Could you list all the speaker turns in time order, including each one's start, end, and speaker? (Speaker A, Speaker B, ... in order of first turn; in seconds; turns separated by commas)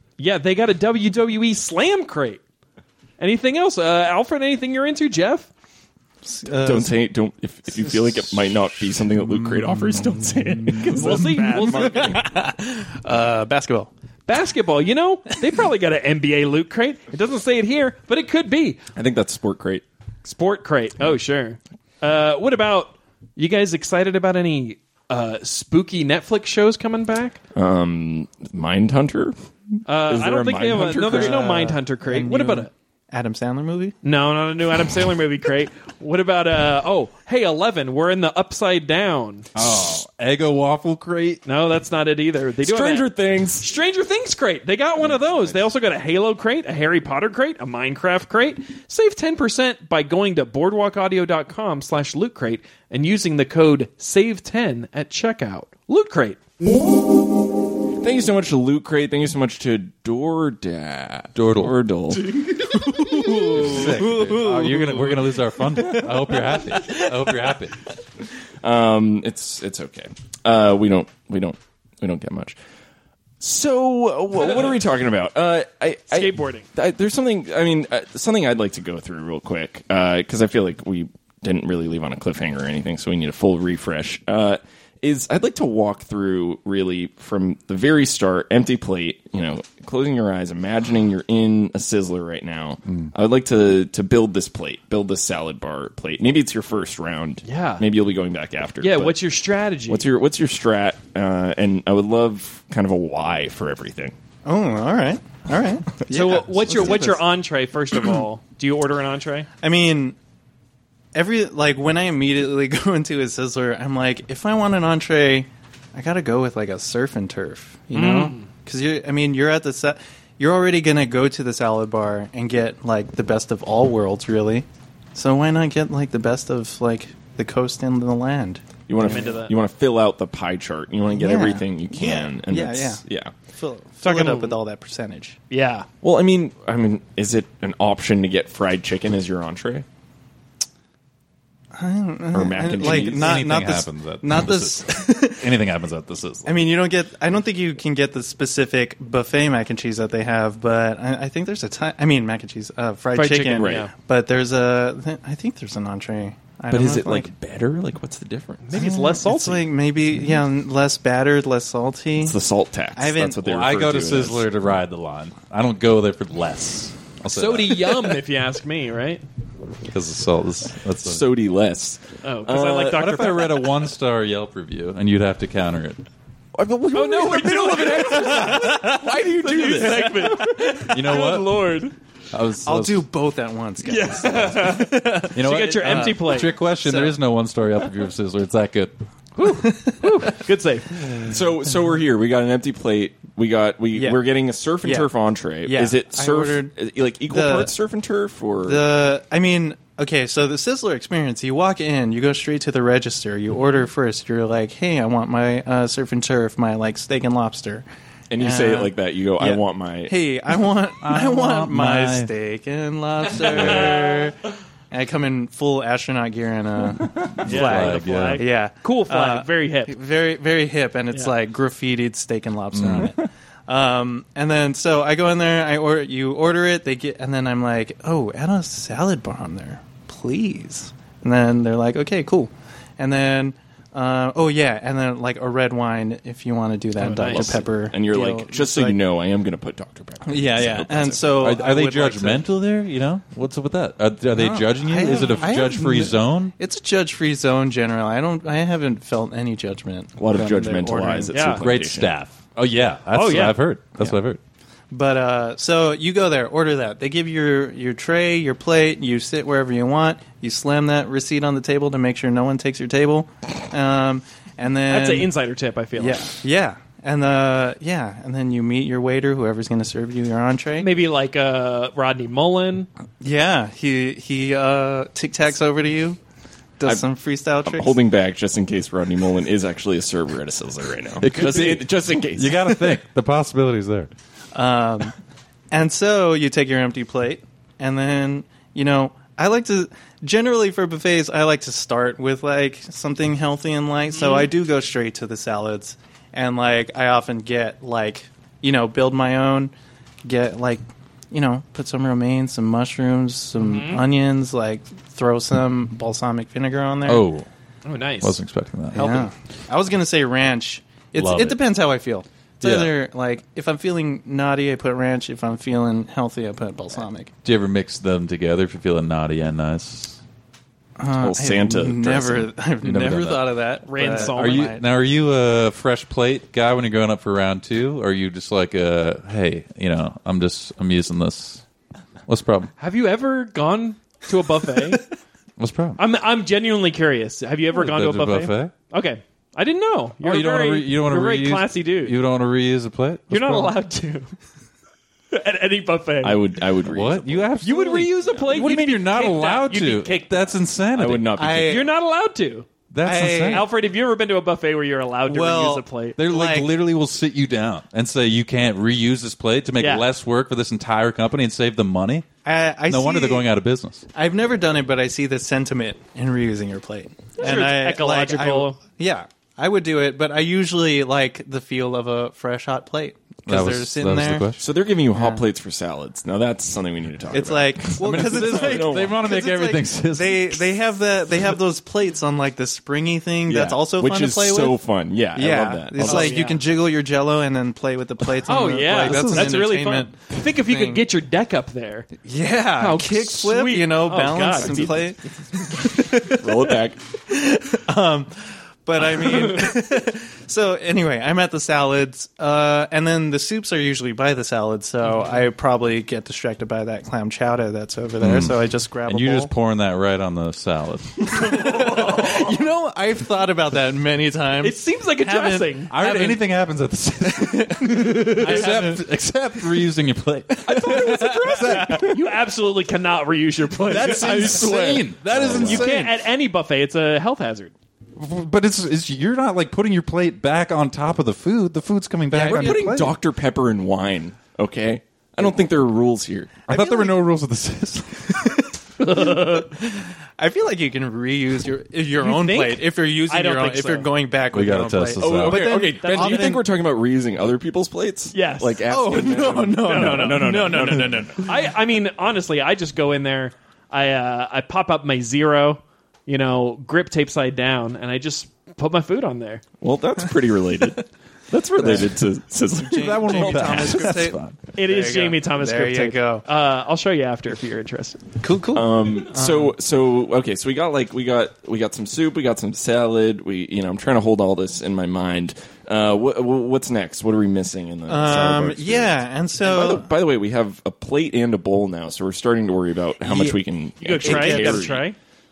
Speaker A: 0.2-2.4, Speaker A: 3.2-5.5, Speaker B: 6.2-6.9, Speaker C: 6.6-12.2, Speaker A: 10.8-12.2, Speaker B: 10.8-13.9, Speaker A: 14.3-18.8, Speaker C: 18.9-19.8, Speaker A: 20.2-27.4, Speaker C: 27.5-29.3, Speaker A: 29.9-32.7, Speaker C: 30.0-31.5, Speaker B: 30.8-34.0, Speaker A: 34.0-39.5, Speaker D: 39.5-41.4, Speaker A: 41.5-56.4, Speaker C: 42.6-43.7, Speaker C: 45.0-45.7, Speaker C: 58.0-62.3, Speaker D: 61.3-61.8, Speaker B: 62.3-65.2, Speaker D: 63.4-67.8, Speaker B: 65.8-67.0, Speaker C: 68.6-72.5, Speaker C: 73.4-99.2, Speaker A: 76.1-76.7, Speaker A: 97.4-97.9, Speaker A: 98.8-100.1, Speaker C: 99.9-104.2, Speaker B: 104.4-107.2, Speaker A: 106.1-109.5, Speaker B: 109.6-110.2, Speaker B: 111.1-129.3, Speaker A: 117.9-118.5, Speaker C: 128.9-133.3, Speaker A: 129.0-129.5, Speaker B: 131.1-135.4, Speaker A: 134.0-134.6, Speaker A: 135.5-135.9, Speaker C: 136.0-139.8, Speaker B: 141.7-145.5, Speaker C: 142.3-143.4, Speaker D: 142.8-146.6, Speaker B: 146.4-157.3, Speaker A: 153.1-153.9, Speaker C: 153.5-153.9, Speaker C: 156.7-158.7, Speaker A: 158.6-159.6, Speaker B: 158.7-162.3, Speaker C: 162.2-164.5, Speaker B: 162.9-163.4, Speaker D: 163.4-168.1, Speaker A: 167.3-169.2, Speaker D: 169.9-171.2, Speaker C: 171.0-173.0, Speaker A: 172.2-173.8, Speaker D: 172.9-176.0, Speaker C: 176.6-181.9, Speaker A: 176.9-181.0, Speaker B: 178.5-179.0, Speaker B: 180.5-180.8, Speaker D: 180.9-181.7, Speaker D: 182.3-183.0, Speaker B: 182.6-187.2, Speaker A: 183.8-186.5, Speaker D: 185.3-188.9, Speaker A: 189.4-191.3, Speaker B: 189.4-190.4, Speaker C: 191.2-198.8, Speaker B: 193.9-194.2, Speaker B: 194.8-195.1, Speaker B: 195.6-196.7, Speaker B: 197.3-197.7, Speaker B: 198.7-207.8, Speaker C: 208.3-210.1, Speaker B: 208.4-214.4, Speaker D: 211.0-212.3, Speaker A: 213.4-214.2, Speaker B: 214.9-239.0, Speaker D: 217.0-218.4, Speaker A: 217.4-219.9, Speaker D: 222.7-223.1, Speaker A: 237.0-237.6, Speaker C: 237.3-241.4, Speaker B: 240.2-242.5, Speaker D: 241.4-246.5, Speaker B: 244.3-251.4, Speaker C: 250.2-252.1, Speaker A: 251.3-251.6, Speaker D: 251.6-254.4, Speaker A: 253.1-253.6, Speaker B: 254.9-265.3, Speaker A: 264.9-266.3, Speaker B: 265.9-270.9, Speaker A: 270.8-272.9, Speaker B: 273.2-276.2, Speaker B: 276.8-277.9, Speaker C: 277.6-283.0, Speaker D: 281.2-284.1, Speaker B: 284.5-285.1, Speaker B: 285.7-299.7, Speaker A: 294.1-294.5, Speaker B: 300.2-307.2, Speaker A: 303.6-304.0, Speaker D: 307.1-307.5, Speaker A: 307.8-308.4, Speaker D: 308.2-309.3, Speaker B: 308.9-317.3, Speaker D: 311.1-311.6, Speaker D: 312.6-312.9, Speaker D: 317.4-320.2, Speaker B: 321.0-324.8, Speaker C: 321.2-322.5, Speaker D: 322.8-323.5, Speaker A: 323.9-324.7, Speaker D: 324.1-331.6, Speaker D: 332.3-332.7, Speaker A: 332.8-335.1, Speaker D: 335.6-336.0, Speaker A: 336.0-342.2, Speaker D: 337.7-338.7, Speaker D: 340.2-343.8, Speaker A: 343.3-344.3, Speaker A: 345.3-346.4, Speaker C: 346.2-347.5, Speaker D: 346.8-351.3, Speaker A: 347.6-350.5, Speaker C: 350.9-351.8, Speaker B: 351.4-351.9, Speaker A: 351.7-356.2, Speaker D: 352.9-353.7, Speaker B: 353.0-353.7, Speaker B: 355.3-356.7, Speaker D: 356.2-362.3, Speaker A: 359.8-360.1, Speaker B: 362.4-363.5, Speaker D: 362.9-364.0, Speaker B: 364.1-374.5, Speaker A: 367.4-368.8, Speaker D: 373.4-374.6, Speaker C: 374.6-379.2, Speaker B: 375.1-375.4, Speaker B: 377.3-384.8, Speaker D: 378.0-380.6, Speaker C: 383.4-386.3, Speaker B: 385.3-391.0, Speaker A: 386.0-386.6, Speaker A: 388.4-392.2, Speaker D: 388.9-389.6, Speaker B: 392.2-409.5, Speaker A: 392.8-395.1, Speaker C: 394.6-395.1, Speaker C: 395.8-397.0, Speaker A: 399.2-399.6, Speaker D: 408.2-411.5, Speaker B: 411.3-416.4, Speaker A: 411.5-412.5, Speaker A: 414.6-415.9, Speaker D: 415.9-422.1, Speaker B: 417.2-419.0, Speaker B: 420.5-422.1, Speaker C: 420.7-422.1, Speaker A: 421.7-424.9, Speaker D: 423.8-426.1, Speaker C: 424.2-425.9, Speaker A: 425.6-427.7, Speaker D: 428.1-433.1, Speaker C: 432.3-436.6, Speaker B: 432.3-432.8, Speaker B: 436.7-437.2, Speaker D: 436.7-438.6, Speaker B: 438.4-446.6, Speaker A: 439.0-439.7, Speaker A: 442.2-444.1, Speaker D: 444.5-445.9, Speaker C: 445.2-451.4, Speaker A: 446.0-446.5, Speaker A: 448.3-448.8, Speaker B: 448.9-451.6, Speaker A: 449.8-450.7, Speaker A: 451.4-459.6, Speaker C: 459.8-464.1, Speaker B: 461.8-462.1, Speaker D: 461.8-462.0, Speaker B: 462.8-466.4, Speaker D: 462.9-464.6, Speaker A: 464.7-468.2, Speaker B: 468.4-469.7, Speaker C: 468.7-485.0, Speaker B: 478.1-480.1, Speaker B: 483.2-483.6, Speaker A: 484.0-485.2, Speaker B: 484.2-484.9